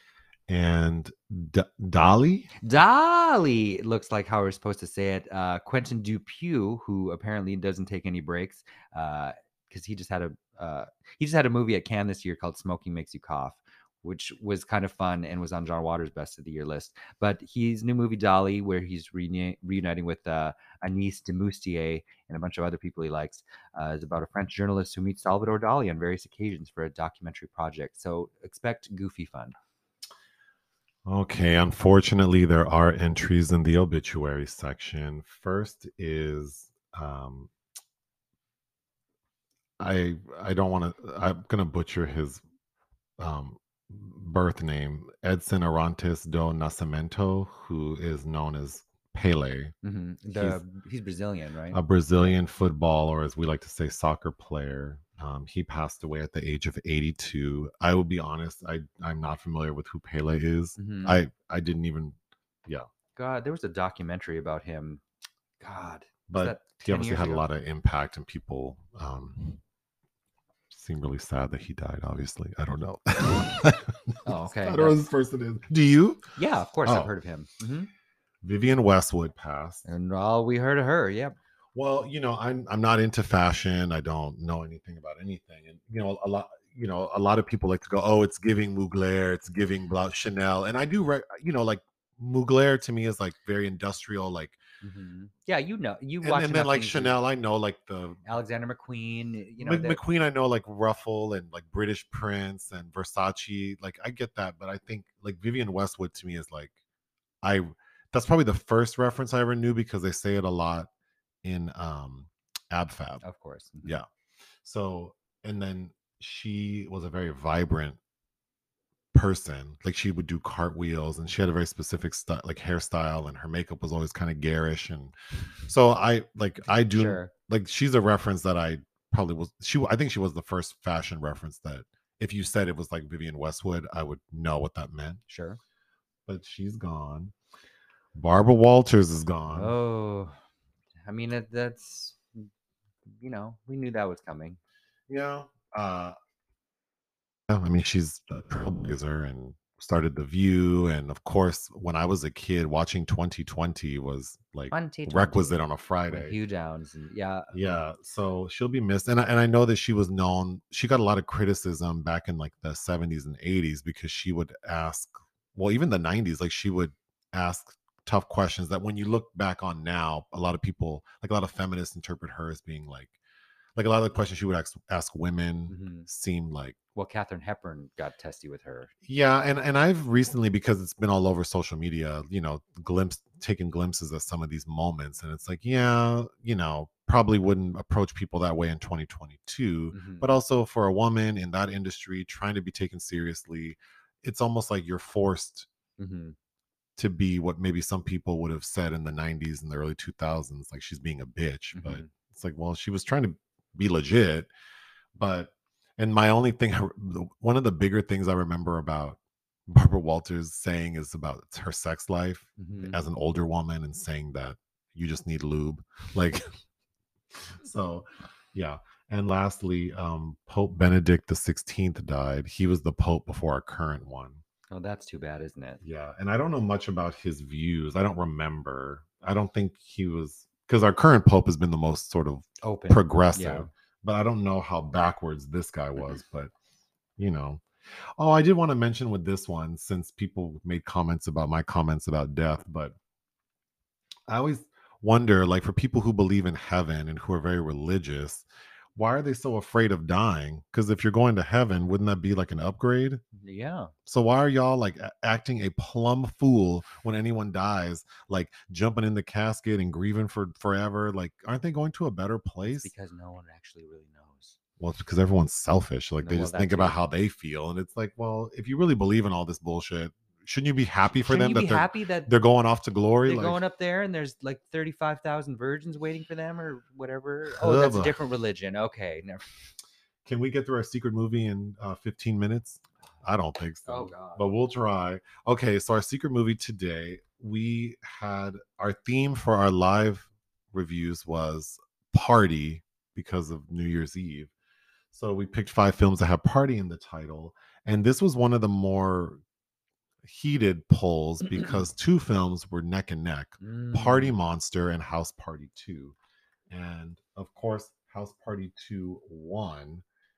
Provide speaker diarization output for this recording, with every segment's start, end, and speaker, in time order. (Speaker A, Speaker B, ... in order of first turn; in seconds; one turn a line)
Speaker A: 0.5-2.5
Speaker B: 2.6-29.6
Speaker A: 31.1-37.5
Speaker A: 39.8-42.4
Speaker A: 43.2-49.7
Speaker B: 49.8-52.4
Speaker A: 50.3-50.6
Speaker A: 51.7-62.9
Speaker B: 60.8-61.2
Speaker B: 63.2-65.0
Speaker B: 65.6-67.5
Speaker A: 66.3-69.6
Speaker A: 70.7-76.3
Speaker B: 74.2-75.0
Speaker B: 76.4-77.9
Speaker A: 76.8-77.1
Speaker A: 78.4-79.8
Speaker B: 79.8-81.4
Speaker A: 81.8-94.6
Speaker B: 94.8-97.2
Speaker A: 96.2-98.2
Speaker B: 98.3-100.0
Speaker A: 99.6-106.7
Speaker A: 107.4-110.9
Speaker A: 111.4-113.2
Speaker B: 113.2-114.0
Speaker A: 114.6-118.0
Speaker A: 119.1-125.1
Speaker A: 125.7-135.2
Speaker B: 126.9-127.3
Speaker B: 135.3-135.6
Speaker A: 136.3-137.3
Speaker A: 138.2-139.7
Speaker B: 139.5-140.4
Speaker B: 141.1-142.2
Speaker B: 143.1-144.6
Speaker A: 145.1-146.2
Speaker A: 147.5-156.4
Speaker B: 154.7-155.6
Speaker B: 156.1-157.5
Speaker A: 157.5-173.2
Speaker A: 173.8-176.8
Speaker B: 175.7-176.1
Speaker B: 176.9-178.9
Speaker A: 179.1-195.7
Speaker B: 189.9-190.3
Speaker B: 196.0-196.3
Speaker A: 197.0-204.5
Speaker B: 201.7-202.1
Speaker A: 205.2-216.5
Speaker B: 212.6-213.0
Speaker A: 217.6-224.4
Speaker B: 224.7-225.8
Speaker A: 225.8-236.5
Speaker B: 232.6-233.7
Speaker A: 237.2-237.6
Speaker A: 238.2-243.0
Speaker A: 244.3-253.2
Speaker B: 253.4-253.9
Speaker A: 254.1-262.9
Speaker B: 262.8-264.6
Speaker A: 264.8-273.6
Speaker B: 266.2-267.0
Speaker B: 271.2-272.3
Speaker B: 273.3-279.5
Speaker A: 277.6-278.1
Speaker A: 280.2-294.5
Speaker B: 283.9-284.4
Speaker A: 295.1-299.4
Speaker A: 300.2-306.1
Speaker B: 303.6-304.4
Speaker A: 306.7-310.0